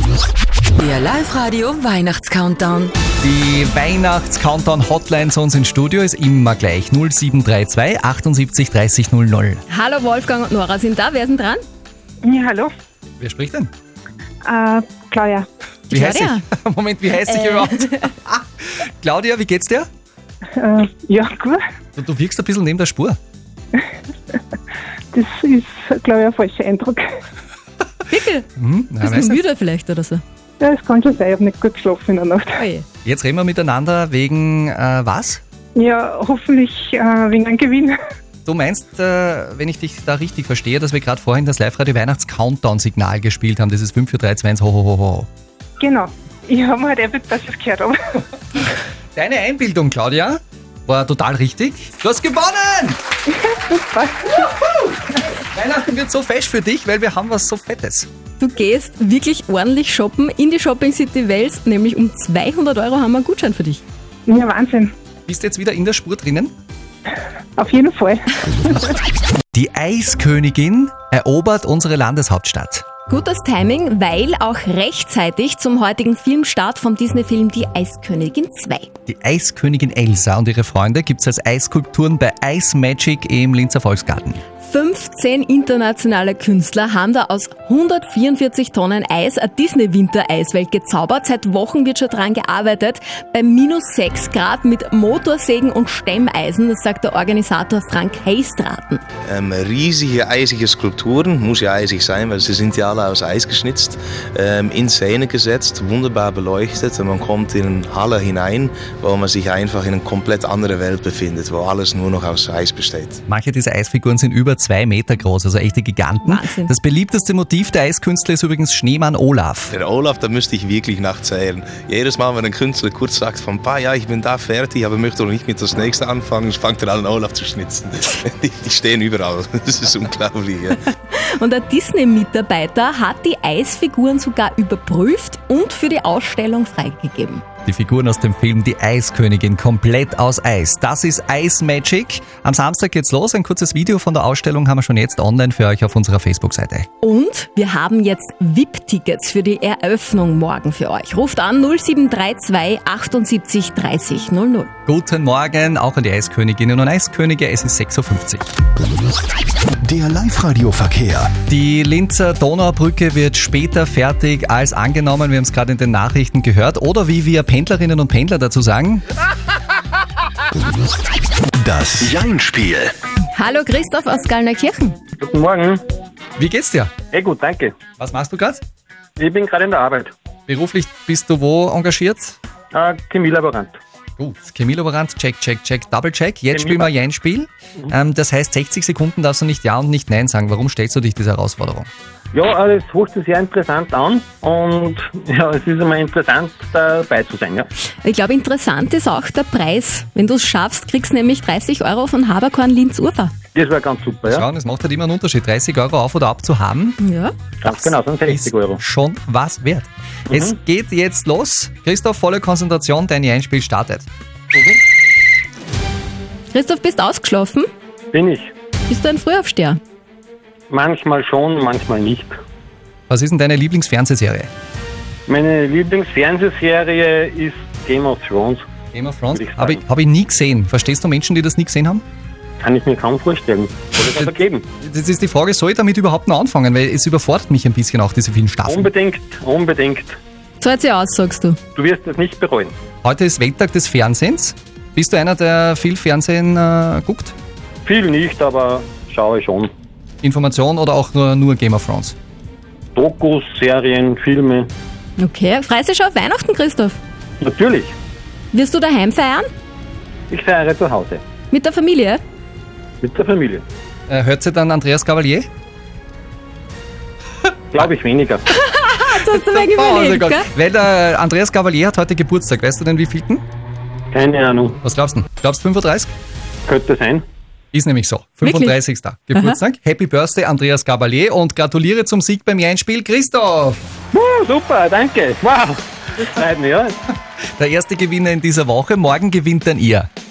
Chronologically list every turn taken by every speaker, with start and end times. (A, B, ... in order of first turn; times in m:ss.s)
0:00.8-0:02.9 A
0:03.2-0:09.6 B
0:09.7-0:11.6 C
0:12.2-0:12.7 D
0:13.2-0:13.7 B
0:14.4-0:15.5 D
0:15.9-0:16.4 C
0:15.9-0:19.9 B
0:20.6-0:21.6 D
0:22.0-0:23.2 B
0:25.1-0:27.1 D
0:28.1-0:28.5 C
0:28.6-0:29.4 B
0:29.0-0:30.2 C
0:30.6-0:32.6 D
0:32.6-0:32.8 C
0:33.0-0:35.4 B
0:35.8-0:38.0 D
0:38.5-0:45.3 B
0:45.8-0:48.0 D
0:48.6-0:53.0 B
0:53.4-0:54.4 D
0:54.4-0:58.1 B
0:58.4-1:03.8 C
1:04.3-1:04.9 D
1:05.3-1:06.5 B
1:07.6-1:09.0 D
1:09.5-1:12.9 B
1:13.1-1:18.9 C
1:19.1-1:24.4 B
1:24.6-1:39.0 C
1:39.3-1:53.2 E
1:53.3-1:59.7 B
1:56.2-1:56.7 C
1:59.7-2:10.8 E
2:11.1-2:17.4 C
2:17.7-2:26.9 B
2:27.0-2:34.7 C
2:34.9-2:38.4 B
2:39.8-2:41.3 F
2:41.5-2:49.0 B
2:51.6-2:52.9 F
2:53.3-2:55.0 C
2:55.2-2:55.8 G
2:56.4-2:56.9 B
2:57.1-2:57.8 G
2:58.0-2:58.6 B
2:59.2-3:00.1 G
3:00.5-3:02.4 B
3:02.7-3:03.8 G
3:04.2-3:11.9 B
3:06.5-3:06.9 G
3:12.3-3:17.7 G
3:18.0-3:23.3 C
3:23.6-3:24.4 G
3:24.3-3:27.0 B
3:27.0-3:27.3 C
3:27.6-3:28.8 G
3:27.7-3:34.1 B
3:30.3-3:30.6 G
3:36.5-3:37.7 C
3:38.1-3:38.5 G
3:38.9-3:39.8 C
3:40.7-3:42.4 G
3:43.1-3:44.5 B
3:45.3-3:48.6 G
3:48.9-3:52.0 B
3:49.3-3:49.8 G
3:52.6-3:54.6 G
3:54.2-3:58.9 B
3:58.7-4:00.2 G
4:00.6-4:01.6 C
4:01.8-4:02.8 G
4:03.0-4:07.3 B
4:07.9-4:09.7 G
4:10.2-4:12.2 B
4:13.0-4:14.7 G
4:15.2-4:17.0 C
4:17.4-4:17.9 G
4:18.5-4:19.5 C
4:20.3-4:21.2 G
4:21.5-4:22.2 C
4:23.0-4:23.6 G
4:24.1-4:25.5 B
4:27.7-4:28.4 G
4:28.5-4:30.5 C
4:29.3-4:33.4 B
4:34.1-4:34.8 G
4:34.8-4:36.1 B
4:36.7-4:37.2 G
4:37.7-4:43.8 B
4:38.4-4:38.8 C
4:44.1-4:47.0 G
4:47.6-4:50.1 B